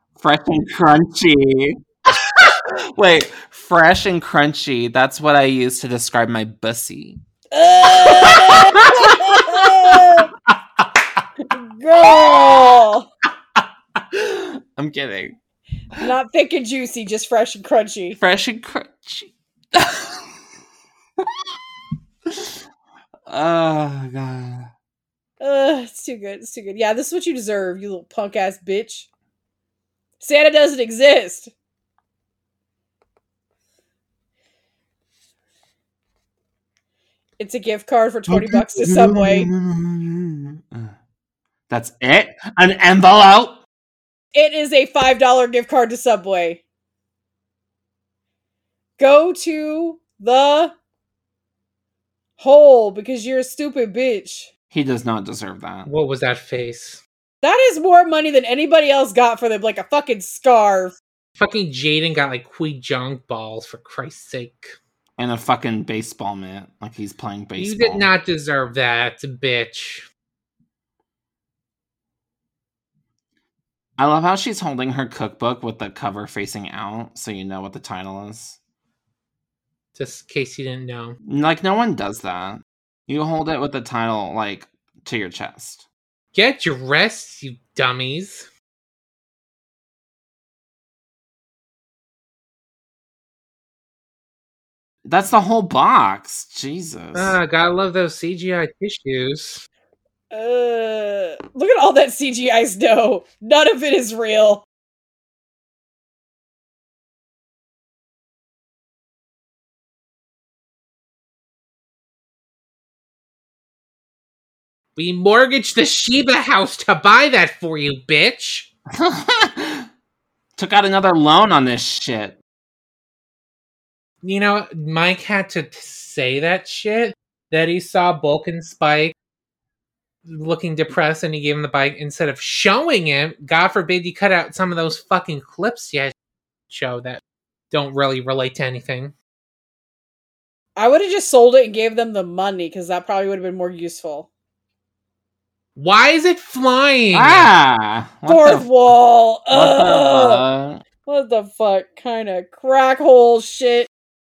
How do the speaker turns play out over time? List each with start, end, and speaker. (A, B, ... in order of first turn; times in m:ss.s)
0:00.2-0:07.2 A
0:07.5-0:10.3 B
0:07.9-0:11.2 A
0:11.5-0:13.1 B
0:12.0-0:12.6 A
0:13.6-0:15.4 A
0:16.0-0:18.2 B
0:18.2-0:20.3 A
0:21.2-0:21.4 A
0:22.3-0:22.6 A
0:23.3-0:24.7 A
0:25.4-0:29.1 B
0:30.2-0:31.5 B
0:37.4-0:39.5 B
0:38.3-0:40.9 A
0:41.7-0:43.6 A
0:44.4-0:46.6 B
0:49.0-0:50.8 B
0:52.4-0:54.5 B
0:54.7-0:55.9 A
0:55.9-0:57.0 C
0:57.4-1:01.0 B
1:01.4-1:04.8 C
1:05.2-1:08.1 A
1:07.6-1:10.0 C
1:14.0-1:18.6 A
1:20.0-1:21.2 C
1:21.2-1:25.9 A
1:26.3-1:28.5 C
1:35.0-1:37.4 A
1:37.1-1:39.7 C
1:40.3-1:44.6 B
1:55.0-1:58.7 C
1:59.0-1:59.9 A
2:00.6-2:02.4 A
2:04.2-2:09.1 C
2:10.3-2:16.1 C
2:16.7-2:19.1 C
2:20.8-2:24.3 B
2:25.8-2:27.5 C
2:27.1-2:28.9 A
2:28.3-2:30.4 B
2:29.5-2:30.8 A
2:31.1-2:33.9 B